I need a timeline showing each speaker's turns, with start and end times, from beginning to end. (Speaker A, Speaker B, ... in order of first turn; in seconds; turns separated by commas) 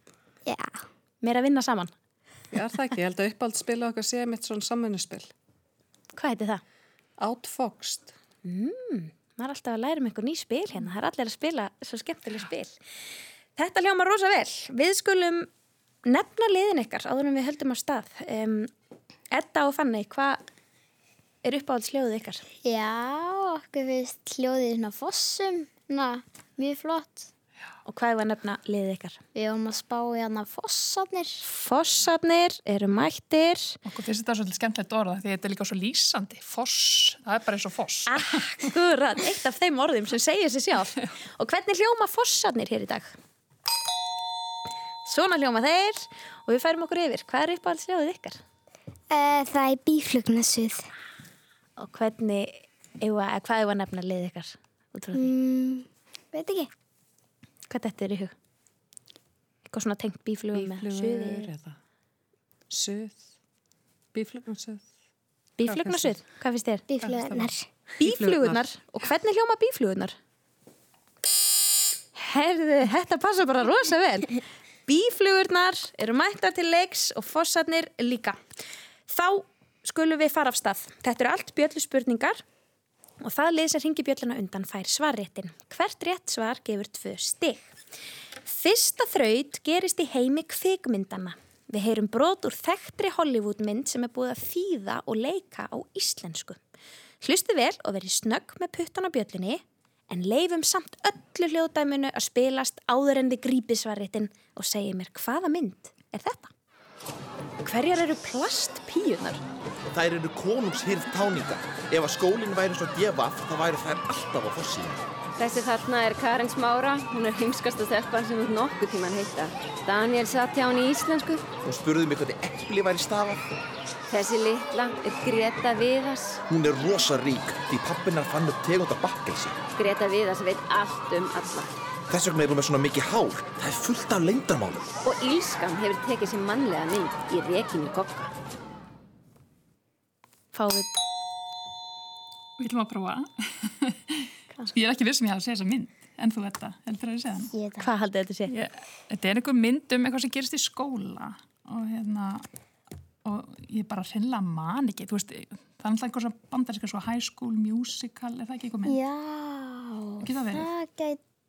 Speaker A: 0.5-0.8, Speaker B: 1.2-1.9, Speaker C: 2.5-5.3, Speaker B: 6.1-6.6, Speaker C: 7.2-8.1, Speaker B: 8.4-12.7, Speaker B: 13.6-15.5, Speaker B: 16.0-18.7, Speaker B: 19.3-20.4, Speaker B: 21.4-22.4, Speaker D: 22.6-27.3, Speaker B: 27.9-29.2, Speaker D: 29.3-31.4, Speaker B: 31.4-33.8, Speaker E: 33.8-38.1, Speaker B: 38.1-43.1, Speaker B: 45.0-48.4, Speaker A: 49.1-50.9, Speaker B: 51.8-55.3, Speaker A: 55.1-56.7, Speaker B: 57.7-58.3, Speaker B: 59.7-61.5, Speaker C: 60.5-61.8, Speaker C: 62.7-63.2, Speaker C: 64.1-64.8, Speaker B: 65.6-66.8, Speaker C: 65.6-66.2, Speaker A: 66.9-67.7, Speaker C: 67.0-68.6, Speaker B: 68.0-70.1, Speaker B: 72.1-78.4, Speaker B: 79.1-82.4, Speaker B: 83.2-87.7, Speaker B: 88.5-96.6, Speaker B: 97.2-106.5, Speaker B: 107.6-109.4, Speaker F: 109.9-115.0, Speaker G: 115.4-121.5, Speaker F: 121.6-123.4, Speaker G: 124.1-126.4, Speaker F: 126.5-129.6, Speaker G: 129.8-131.7, Speaker F: 132.1-134.8, Speaker G: 135.0-138.3, Speaker B: 140.5-140.9, Speaker E: 142.6-147.5, Speaker D: 147.5-147.8, Speaker B: 147.8-148.5, Speaker E: 148.5-152.4, Speaker E: 153.2-159.0, Speaker D: 158.8-159.6, Speaker E: 160.2-160.7, Speaker D: 160.5-161.2